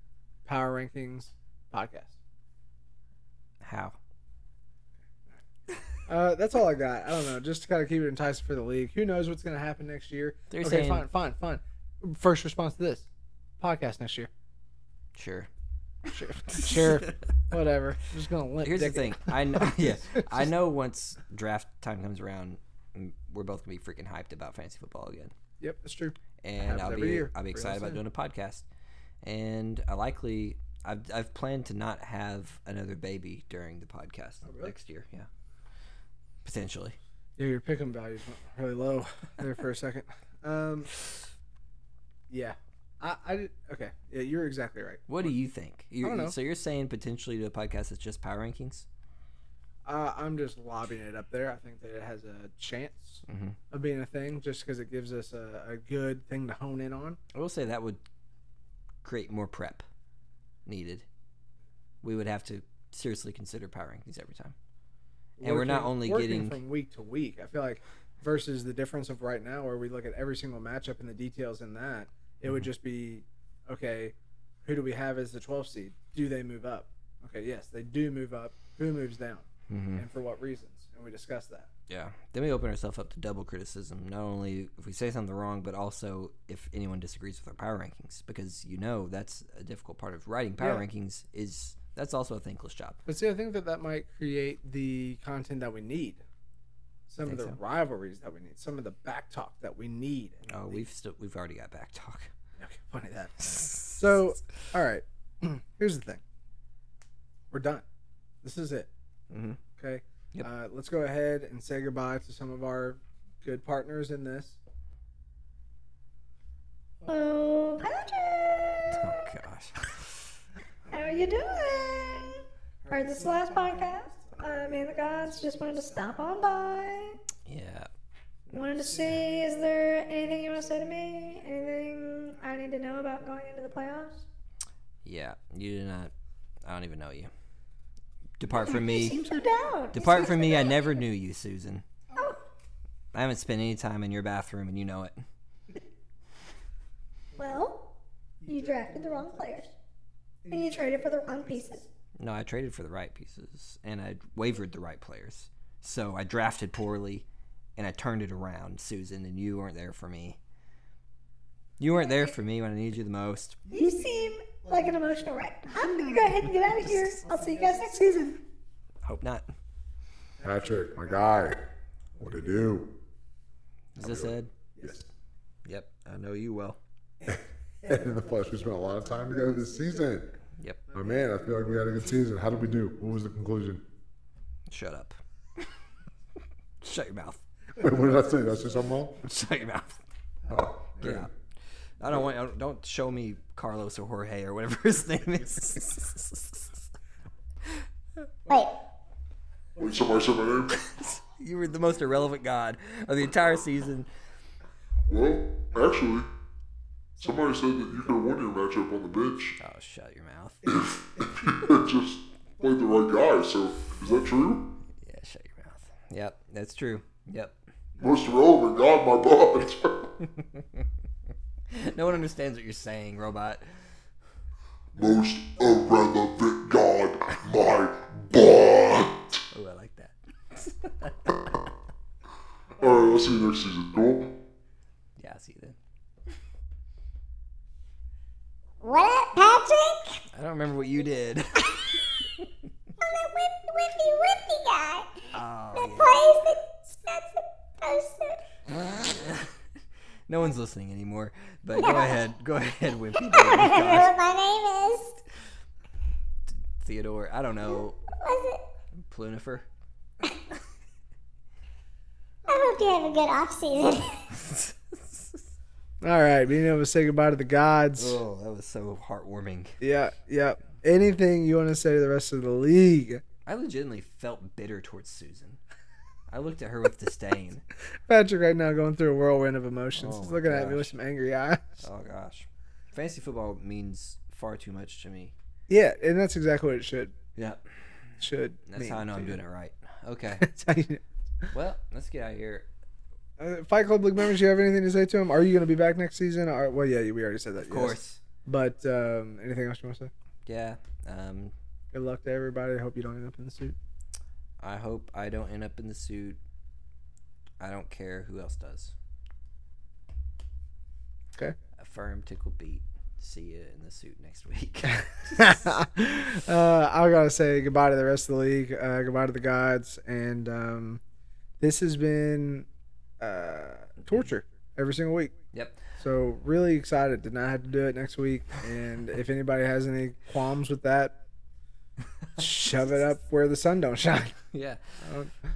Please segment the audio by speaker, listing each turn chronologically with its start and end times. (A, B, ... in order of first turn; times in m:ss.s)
0:00.4-0:02.1 A
0:03.6-0:04.0 B
0:06.0-0:13.1 A
0:10.5-0:11.1 B
0:13.6-0:14.3 A
0:15.1-0:15.5 B
0:16.1-0:17.0 B
0:16.1-0:20.5 A
0:18.6-0:25.3 B
0:25.6-0:28.0 A
0:26.4-0:28.6 B
0:29.2-0:35.3 B
0:34.4-0:34.7 A
0:36.4-0:37.0 B
0:37.4-0:40.9 A
0:42.3-0:45.3 A
0:45.1-0:48.8 B
0:46.0-0:46.3 A
0:49.8-0:57.2 A
0:53.3-0:53.6 B
0:57.3-0:58.0 B
0:59.0-0:59.8 B
1:00.6-1:01.0 B
1:02.0-1:04.5 B
1:05.4-1:14.1 A
1:05.4-1:06.6 B
1:14.6-1:19.4 A
1:19.7-1:20.0 B
1:20.0-1:21.7 A
1:21.9-1:33.0 B
1:33.0-1:36.2 A
1:37.1-1:40.8 A
1:37.2-1:37.6 B
1:40.5-1:42.3 B
1:42.6-1:46.2 A
1:43.6-1:43.9 B
1:47.5-1:47.8 A
1:48.4-1:48.9 A
1:49.3-1:49.6 B
1:49.8-1:54.6 A
1:57.0-1:59.2 C
1:58.9-2:00.3 B
2:00.9-2:07.2 C
2:07.4-2:07.9 B
2:08.5-2:14.2 C
2:15.0-2:16.1 B
2:16.6-2:17.3 B
2:18.4-2:19.2 B
2:18.5-2:20.9 C
2:19.9-2:21.8 B
2:22.1-2:22.4 C
2:23.1-2:25.2 B
2:27.4-2:27.9 C
2:28.4-2:29.7 C
2:30.5-2:31.8 C
2:32.2-2:40.4 B
2:41.8-2:43.6 B
2:43.7-2:48.4 C
2:49.0-2:49.5 B
2:50.6-2:51.3 D
2:54.0-2:55.0 B
2:55.6-2:56.8 B
2:58.2-3:00.2 D
3:00.6-3:00.8 B
3:01.0-3:03.4 D
3:04.7-3:05.2 B
3:06.8-3:07.4 B
3:07.8-3:09.1 D
3:09.2-3:11.3 B
3:12.0-3:16.8 B
3:18.5-3:18.8 E
3:19.8-3:20.9 F
3:20.7-3:24.1 B
3:25.1-3:26.3 F
3:27.2-3:29.6 F
3:29.6-3:31.0 B
3:30.7-3:34.7 F
3:35.0-3:37.6 B
3:38.0-3:40.0 F
3:40.2-3:40.9 B
3:41.7-3:43.8 B
3:45.0-3:49.4 F
3:49.5-3:51.7 B
3:52.8-3:54.4 F
3:55.2-3:55.8 B
3:58.8-4:00.2 E
4:00.3-4:02.0 B
4:03.0-4:08.4 E
4:05.3-4:06.2 B
4:08.7-4:09.5 B
4:10.3-4:14.1 B
4:11.8-4:12.2 E
4:13.2-4:15.2 E
4:16.5-4:18.0 B
4:18.2-4:18.6 E
4:18.9-4:19.7 B
4:22.5-4:24.3 E
4:24.3-4:25.4 B
4:26.0-4:28.2 A
4:28.0-4:29.8 B
4:29.8-4:33.2 A
4:33.4-4:35.6 B
4:36.3-4:37.6 B
4:38.1-4:41.8 A
4:39.9-4:40.9 B
4:41.8-4:45.3 B
4:45.7-4:47.1 A
4:47.3-4:47.8 B
4:48.2-4:49.4 A
4:48.7-4:50.4 B
4:50.4-4:51.5 A
4:51.5-4:52.7 B
4:53.4-5:00.1 A
4:57.6-4:58.2 B
5:00.4-5:01.5 B
5:01.9-5:03.8 A
5:04.6-5:06.4 B
5:07.6-5:08.9 B
5:11.8-5:15.7 B
5:15.3-5:21.0 A
5:21.6-5:22.7 A
5:23.2-5:25.3 A
5:25.5-5:25.8 B
5:26.0-5:31.2 A
5:32.4-5:34.4 A
5:34.5-5:34.8 B
5:35.0-5:35.3 A